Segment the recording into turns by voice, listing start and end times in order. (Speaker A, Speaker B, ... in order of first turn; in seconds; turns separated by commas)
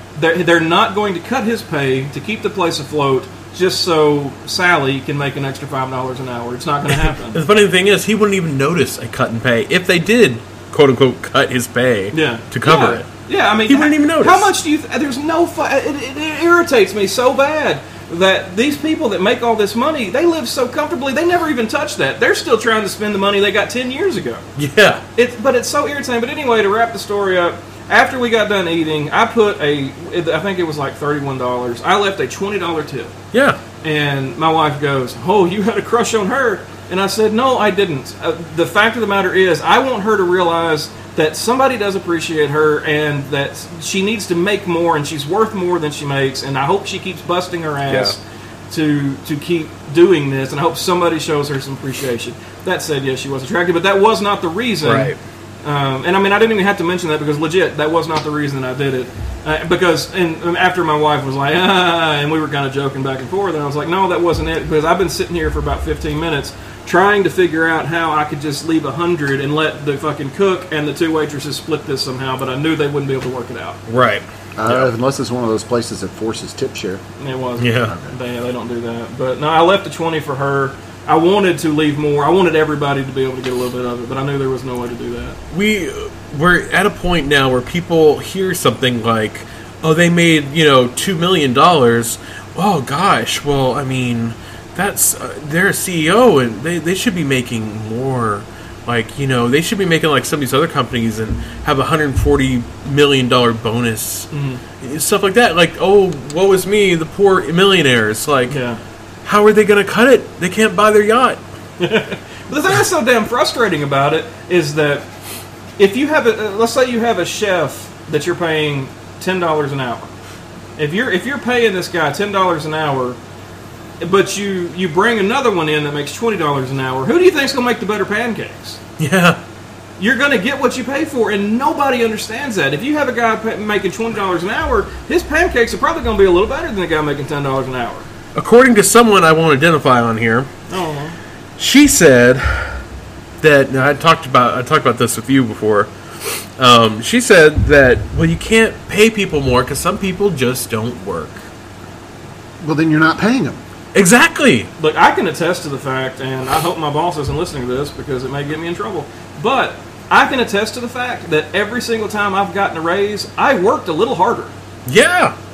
Speaker A: 0.2-7.4, Speaker B: 7.3-13.1, Speaker A: 12.1-24.4, Speaker B: 13.7-14.5, Speaker B: 24.6-25.0, Speaker A: 25.2-33.1, Speaker B: 33.3-33.6, Speaker A: 33.8-73.8, Speaker B: 47.9-48.1, Speaker B: 54.8-55.2, Speaker B: 73.9-74.9, Speaker C: 74.6-77.0, Speaker A: 77.2-85.4, Speaker B: 77.6-78.0, Speaker C: 77.9-78.1, Speaker B: 85.5-104.3, Speaker A: 104.3-104.6, Speaker B: 104.8-108.6, Speaker A: 108.5-108.8, Speaker B: 109.2-111.4, Speaker A: 111.8-115.1, Speaker A: 115.8-120.1, Speaker A: 120.8-123.2, Speaker A: 124.0-128.8, Speaker B: 129.0-129.4, Speaker A: 130.0-138.1, Speaker B: 138.4-140.5, Speaker A: 140.7-141.2, Speaker B: 141.6-142.8, Speaker B: 143.4-145.9, Speaker B: 146.6-151.4, Speaker C: 152.6-153.6, Speaker B: 153.9-154.7, Speaker A: 154.8-164.5, Speaker B: 164.9-165.3